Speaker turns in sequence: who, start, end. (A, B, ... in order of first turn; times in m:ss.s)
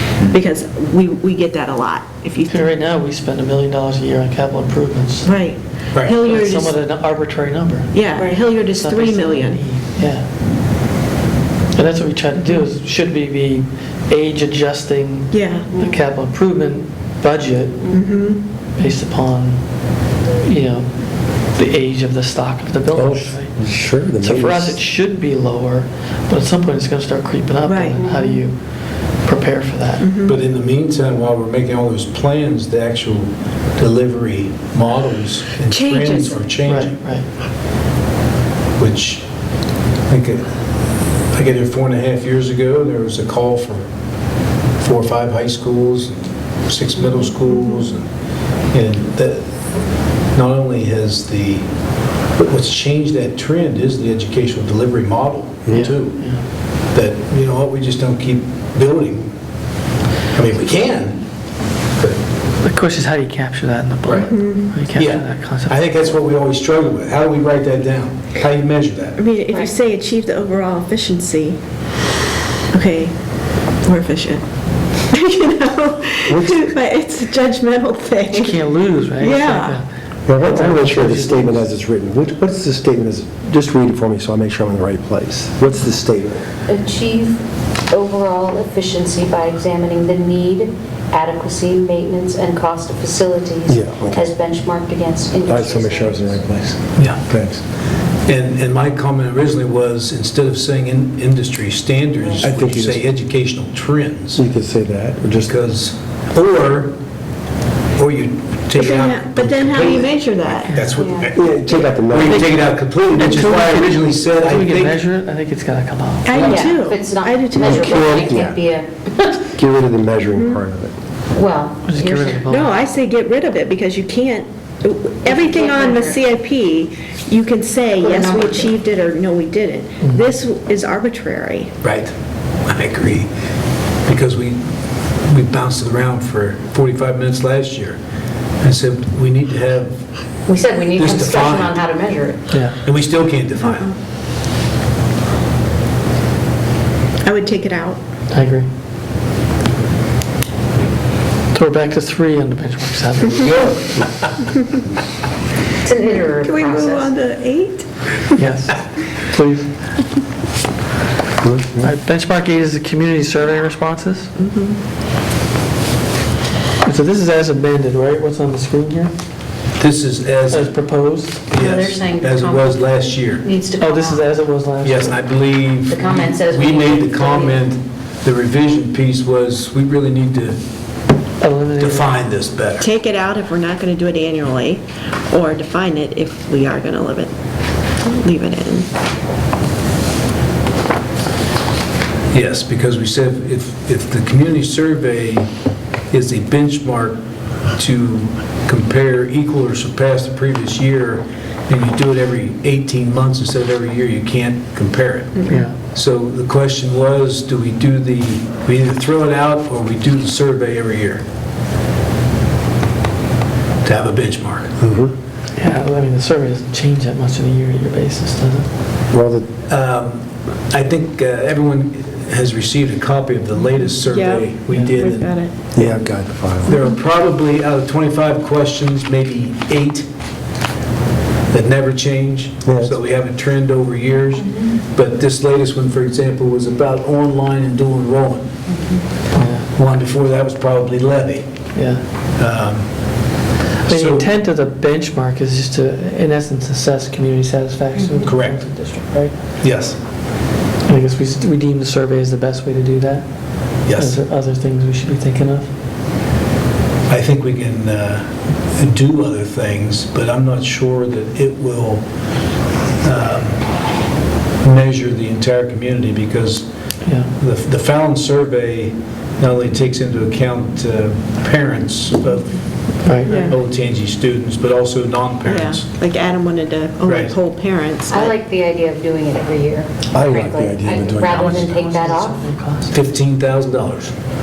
0:00.3-0:02.7 A
0:02.5-0:05.3 B
0:05.2-0:06.8 A
0:05.9-0:06.2 C
0:06.2-0:10.3 B
0:07.9-0:09.6 A
0:11.7-0:18.0 B
0:15.3-0:15.7 A
0:15.7-0:16.0 D
0:17.9-0:18.4 A
0:18.8-0:28.6 B
0:22.9-0:24.8 E
0:27.6-0:28.1 A
0:28.0-0:28.4 D
0:29.1-0:30.1 B
0:30.0-0:30.4 A
0:30.2-0:37.0 C
0:35.7-0:36.4 A
0:36.6-0:37.3 B
0:38.8-0:39.2 C
0:40.1-0:40.4 C
0:41.3-0:43.9 C
0:44.8-0:48.0 C
0:48.7-0:49.5 C
0:50.3-0:51.6 C
0:52.3-0:56.3 C
0:55.7-0:55.9 E
0:55.7-0:56.4 B
0:56.9-0:59.3 C
1:00.3-1:01.2 C
1:02.6-1:05.8 B
1:04.0-1:09.2 C
1:04.1-1:04.8 A
1:09.2-1:11.6 A
1:12.7-1:13.1 A
1:13.8-1:14.4 A
1:15.1-1:19.8 A
1:16.3-1:16.7 E
1:18.3-1:21.6 B
1:20.3-1:26.5 E
1:26.7-1:36.4 D
1:33.7-1:34.4 E
1:35.4-1:37.6 E
1:37.0-1:37.3 C
1:38.2-1:44.4 C
1:42.2-1:42.5 D
1:42.4-1:43.0 E
1:44.3-1:45.6 E
1:45.4-1:46.9 C
1:48.0-1:55.0 C
1:48.7-1:50.7 A
1:50.9-1:51.3 D
1:51.3-1:52.7 E
1:52.2-1:56.7 B
1:56.2-1:58.2 A
1:56.3-1:59.4 D
1:57.6-1:58.6 E
1:59.4-2:00.9 E
2:00.4-2:00.6 A
2:01.3-2:02.4 D
2:01.8-2:02.7 B
2:02.5-2:11.7 A
2:05.2-2:06.2 D
2:08.0-2:08.7 D
2:11.8-2:12.1 C
2:12.7-2:13.3 C
2:14.1-2:14.6 C
2:15.3-2:18.0 C
2:18.6-2:20.0 C
2:20.4-2:22.5 D
2:20.9-2:21.8 C
2:22.5-2:22.8 B
2:22.7-2:23.9 C
2:23.6-2:23.9 A
2:27.2-2:28.0 A
2:28.3-2:28.7 B
2:31.5-2:33.8 B
2:33.4-2:34.2 C
2:35.8-2:37.1 D
2:36.4-2:38.4 A
2:38.4-2:40.0 B
2:41.4-2:41.9 E
2:41.8-2:44.3 B
2:44.4-2:44.8 A
2:46.8-2:49.1 B
2:49.8-2:50.8 C
2:50.5-2:51.4 B
2:51.5-2:53.5 C
2:51.5-2:54.3 D
2:53.8-2:55.2 B
2:54.8-3:00.6 C
2:55.8-2:57.6 D
3:01.4-3:02.1 B
3:01.8-3:02.9 C
3:02.8-3:07.3 A
3:08.1-3:08.9 A
3:12.3-3:15.5 C
3:16.1-3:17.2 C
3:17.8-3:31.2 C
3:25.5-3:25.8 B
3:33.8-3:34.8 C
3:34.8-3:35.1 E
3:35.6-3:38.7 B
3:39.1-3:39.5 E
3:39.7-3:45.3 C
3:44.0-3:45.5 A
3:45.8-3:46.8 E
3:46.6-3:50.1 C
3:51.5-3:58.4 C
3:52.7-3:52.9 E
3:54.3-3:54.8 D
3:58.7-3:59.0 D
3:59.3-3:59.7 B
3:59.7-4:01.5 C
4:01.7-4:02.0 B
4:02.4-4:03.3 C
4:03.8-4:04.3 C
4:03.8-4:09.4 B
4:08.0-4:08.2 D
4:08.2-4:08.6 C
4:09.6-4:10.0 C
4:10.8-4:15.7 B
4:13.8-4:14.2 C
4:17.1-4:22.1 C
4:23.0-4:23.7 C
4:24.6-4:26.7 C
4:27.0-4:27.3 B
4:27.4-4:35.9 C
4:33.0-4:33.6 B
4:33.2-4:33.6 A
4:35.4-4:38.4 A
4:37.0-4:37.4 C
4:38.1-4:42.4 D
4:40.1-4:41.7 E
4:41.2-4:42.9 B
4:42.9-4:44.1 C